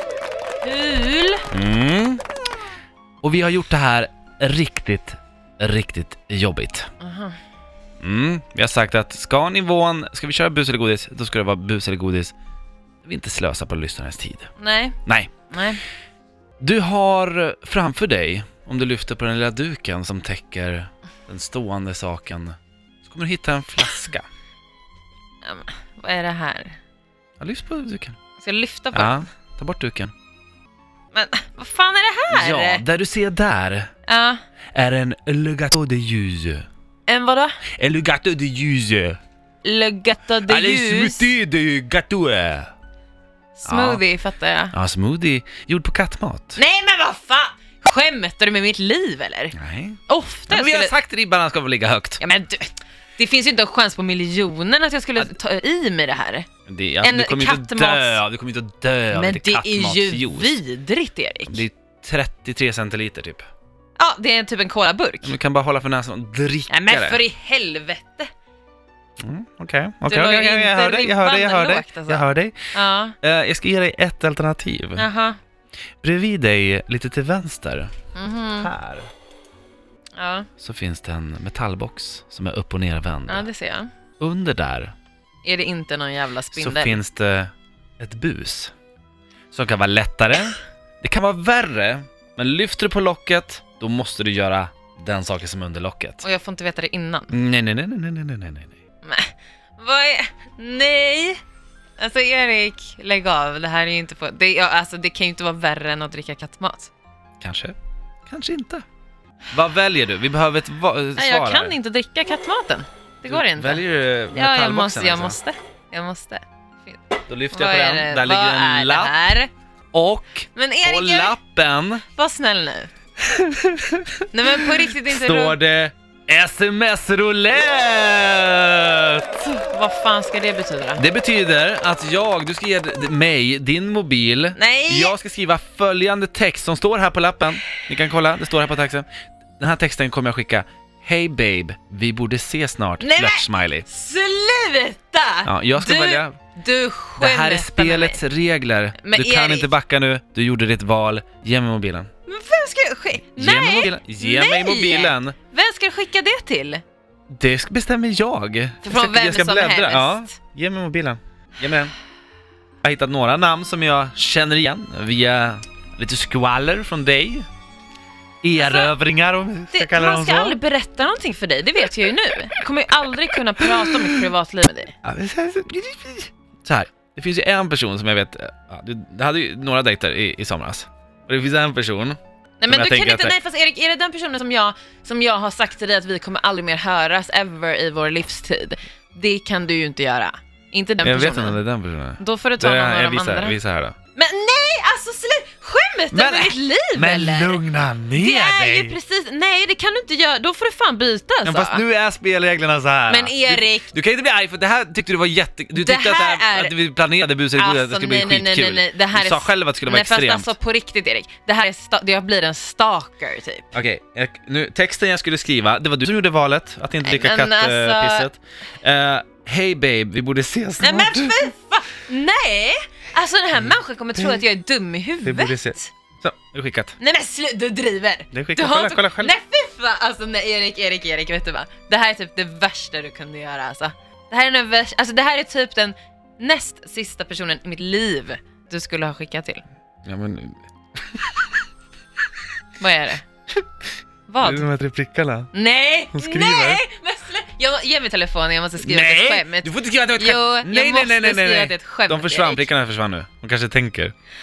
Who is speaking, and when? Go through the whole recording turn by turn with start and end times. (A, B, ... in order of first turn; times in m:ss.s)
0:00.6-0:01.5 A
0:01.5-0:02.2 B
0:03.2-0:06.9 B
0:07.0-0:07.4 A
0:08.0-0:12.3 B
0:13.0-0:14.5 B
0:14.6-0:15.8 A
0:15.0-0:15.3 B
0:16.6-0:24.3 B
0:25.4-0:26.8 A
0:27.4-0:28.2 B
0:28.4-0:29.3 A
0:28.9-0:30.1 B
0:31.1-0:32.8 A
0:32.3-0:33.9 B
0:34.1-0:34.4 A
0:34.7-0:36.7 B
0:37.1-0:37.6 A
0:37.7-0:39.2 B
0:39.6-0:41.3 A
0:40.5-0:42.7 B
0:43.6-0:44.7 A
0:43.6-0:44.0 B
0:44.7-0:46.6 B
0:46.6-0:49.5 A
0:49.5-0:52.2 B
0:50.1-0:51.0 A
0:52.2-0:56.5 A
0:56.6-1:00.6 B
0:57.0-0:58.2 A
0:59.1-1:01.6 A
1:01.5-1:03.4 B
1:04.0-1:05.3 A
1:05.2-1:07.2 B
1:06.7-1:08.3 A
1:09.2-1:12.6 B
1:10.0-1:13.2 A
1:13.2-1:15.1 B
1:15.0-1:15.4 A
1:16.0-1:17.9 B
1:18.1-1:18.7 A
1:18.6-1:19.1 B
1:20.2-1:20.5 A
1:20.6-1:23.5 B
1:23.3-1:23.9 A
1:24.2-1:24.9 B
1:25.4-1:27.0 A
1:26.5-1:28.7 B
1:29.5-1:36.2 B
1:36.2-1:37.3 A
1:37.3-1:38.7 B
1:39.0-1:41.4 A
1:42.0-1:46.9 A
1:47.4-1:47.8 B
1:48.3-1:48.8 B
1:49.5-1:51.7 B
1:51.2-1:59.5 A
1:53.3-1:55.4 B
1:57.3-1:59.2 B
1:59.9-2:02.0 B
2:00.5-2:01.4 A
2:02.1-2:02.9 A
2:03.3-2:09.6 B
2:04.3-2:05.6 A
2:09.7-2:11.0 A
2:11.0-2:19.1 B
2:14.5-2:15.2 A
2:19.6-2:23.9 B
2:23.0-2:28.2 A
2:25.4-2:26.4 B
2:27.2-2:32.1 B
2:29.0-2:29.7 A
2:32.3-2:36.8 A
2:33.4-2:35.4 B
2:37.3-2:41.9 B
2:38.8-2:40.3 A
2:42.8-2:47.5 B
2:48.4-2:50.6 B
2:48.5-2:48.9 A
2:49.7-2:55.0 A
2:53.6-2:53.8 B
2:55.0-3:03.3 B
3:02.6-3:11.6 A
3:11.0-3:13.9 B
3:12.2-3:13.6 A
3:14.1-3:21.8 A
3:16.1-3:19.0 B
3:21.4-3:30.5 B
3:23.1-3:23.9 A
3:25.7-3:26.7 A
3:27.6-3:33.7 A
3:33.7-3:41.5 B
3:37.0-3:38.3 A
3:40.8-3:45.9 A
3:43.6-3:44.4 B
3:45.2-3:47.0 B
3:47.0-3:59.6 A
3:48.3-3:49.3 B
4:00.0-4:01.5 B
4:02.8-4:03.2 A
4:04.3-4:04.7 A
4:04.4-4:05.5 B
4:05.5-4:12.7 A
4:06.1-4:06.8 B
4:08.8-4:14.1 B